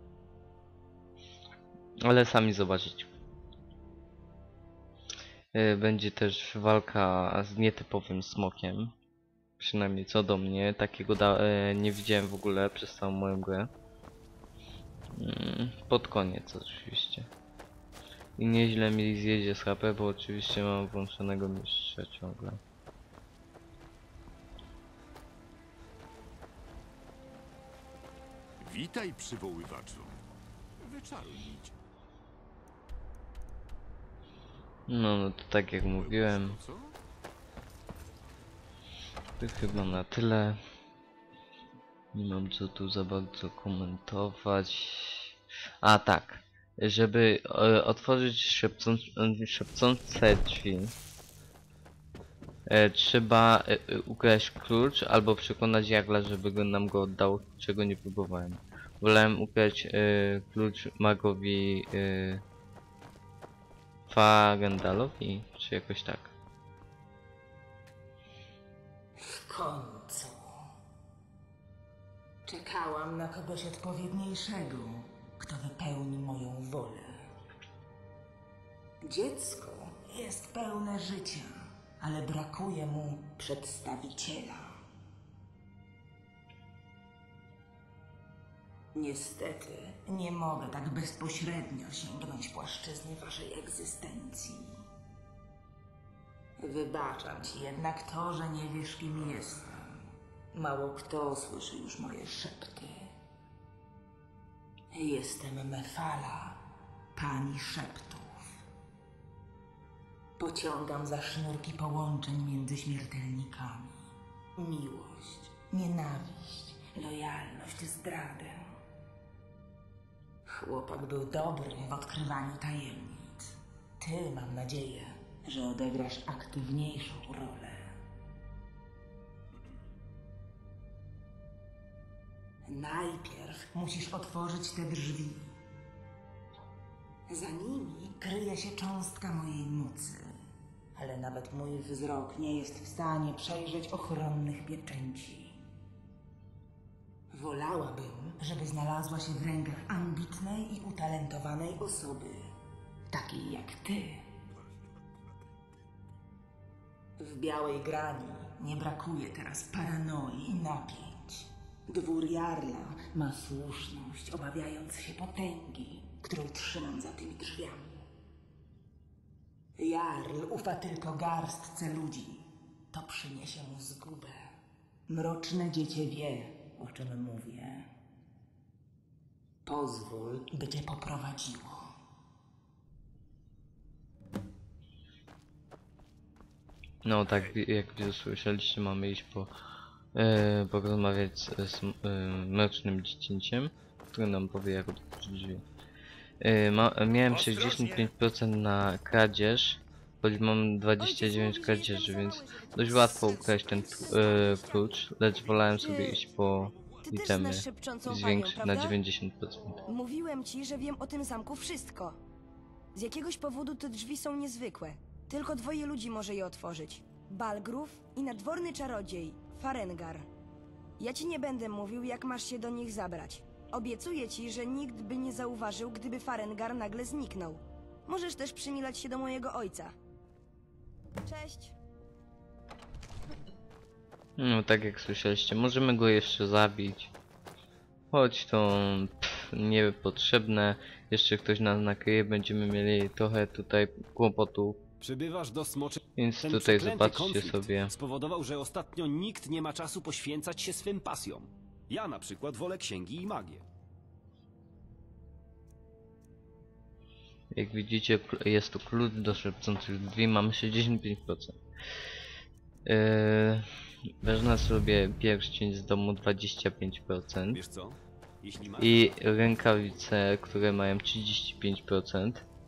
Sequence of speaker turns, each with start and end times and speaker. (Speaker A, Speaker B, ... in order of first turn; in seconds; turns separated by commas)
Speaker A: 2.0-3.1, Speaker A: 5.5-8.9, Speaker A: 9.6-13.7, Speaker A: 15.1-17.3, Speaker A: 18.4-22.6, Speaker B: 28.6-30.2, Speaker B: 30.8-31.7, Speaker A: 34.9-36.6, Speaker B: 35.8-36.9, Speaker A: 39.4-40.6, Speaker A: 42.1-50.9, Speaker A: 52.7-62.4, Speaker A: 64.1-66.3, Speaker C: 69.2-70.7, Speaker C: 72.4-77.3, Speaker C: 79.0-84.8, Speaker C: 88.9-94.8, Speaker C: 96.6-100.0, Speaker C: 100.5-103.1, Speaker C: 104.9-108.6, Speaker C: 110.4-118.8, Speaker C: 120.4-128.0, Speaker C: 132.6-135.5, Speaker C: 137.3-140.3, Speaker C: 140.9-145.6, Speaker C: 147.3-152.5, Speaker C: 153.1-154.3, Speaker C: 157.2-168.1, Speaker C: 169.8-174.5, Speaker C: 175.1-177.9, Speaker C: 179.6-181.8, Speaker A: 187.0-189.5, Speaker A: 190.1-195.6, Speaker A: 196.4-209.8, Speaker B: 197.4-197.9, Speaker D: 201.0-204.3, Speaker B: 203.2-207.1, Speaker D: 205.8-206.2, Speaker D: 207.1-209.0, Speaker D: 209.8-212.2, Speaker D: 212.9-220.3, Speaker D: 221.0-229.9, Speaker D: 231.2-231.8, Speaker A: 234.4-237.1, Speaker A: 238.1-244.8, Speaker E: 245.0-253.6, Speaker A: 246.2-247.9, Speaker A: 257.5-261.6, Speaker A: 262.9-263.6, Speaker A: 264.2-267.6, Speaker E: 267.5-269.2, Speaker A: 268.8-272.4